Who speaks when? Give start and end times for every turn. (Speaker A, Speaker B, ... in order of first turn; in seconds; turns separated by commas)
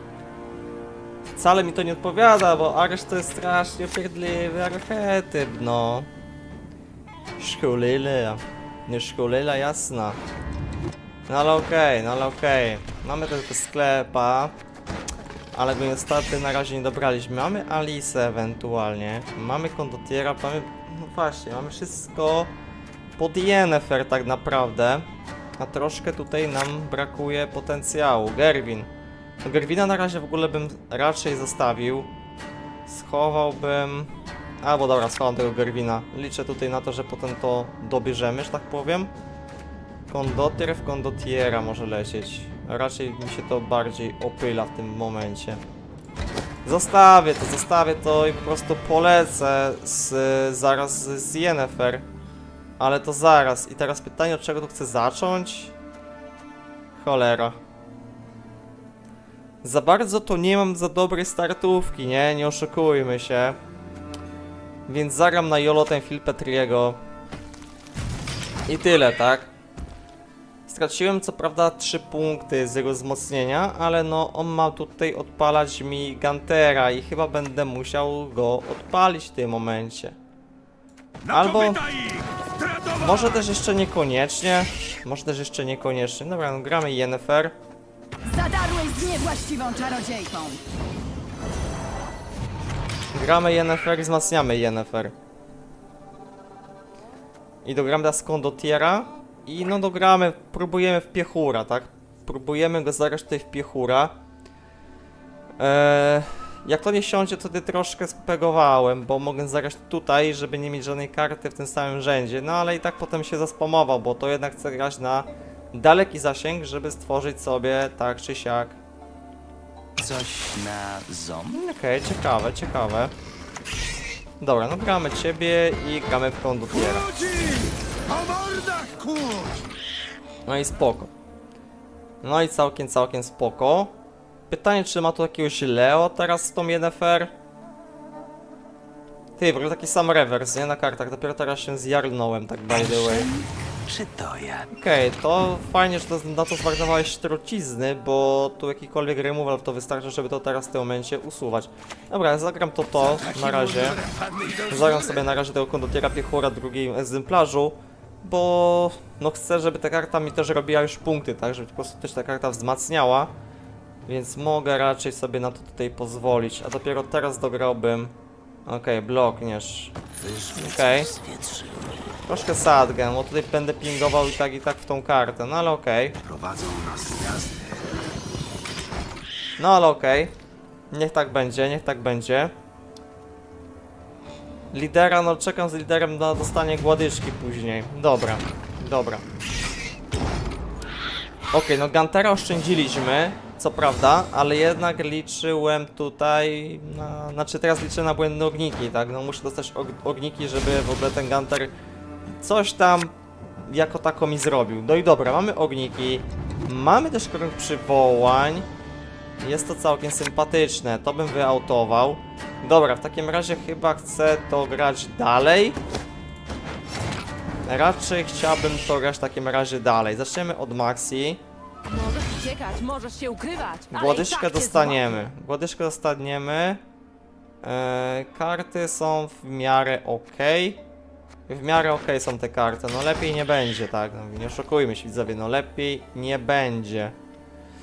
Speaker A: 1.4-6.1, Speaker A: 7.4-10.2, Speaker A: 11.3-14.5, Speaker A: 15.5-22.5, Speaker A: 23.2-25.1, Speaker A: 25.6-28.9, Speaker A: 29.4-32.1, Speaker A: 32.9-34.1, Speaker A: 34.6-39.1, Speaker A: 40.1-45.6, Speaker A: 46.6-52.0, Speaker A: 52.8-55.7, Speaker A: 57.0-57.6, Speaker A: 59.6-63.6, Speaker A: 64.9-67.0, Speaker A: 68.7-69.5, Speaker A: 70.7-80.2, Speaker B: 81.2-83.5, Speaker A: 81.3-81.8, Speaker A: 83.0-87.6, Speaker C: 88.2-90.7, Speaker A: 93.1-95.1, Speaker A: 97.6-104.2, Speaker A: 105.6-118.8, Speaker D: 120.0-121.6, Speaker A: 121.5-123.1, Speaker A: 124.4-127.1, Speaker B: 126.7-129.8, Speaker A: 130.5-131.1, Speaker A: 132.2-133.9, Speaker A: 134.5-137.3, Speaker A: 139.4-143.3, Speaker D: 142.7-144.7, Speaker A: 144.7-154.0, Speaker B: 153.1-155.3, Speaker A: 154.7-163.3, Speaker A: 164.1-168.1, Speaker A: 168.7-169.9, Speaker D: 170.2-172.1, Speaker A: 170.6-171.1, Speaker A: 172.3-176.2, Speaker D: 176.2-177.9, Speaker A: 179.6-180.3, Speaker A: 180.9-182.5, Speaker A: 184.7-189.2, Speaker A: 191.5-201.7, Speaker A: 202.4-203.1, Speaker A: 203.7-208.7, Speaker A: 209.4-215.8, Speaker A: 217.7-221.4, Speaker E: 221.9-225.2, Speaker A: 223.9-226.8, Speaker A: 227.6-230.8, Speaker A: 231.5-237.2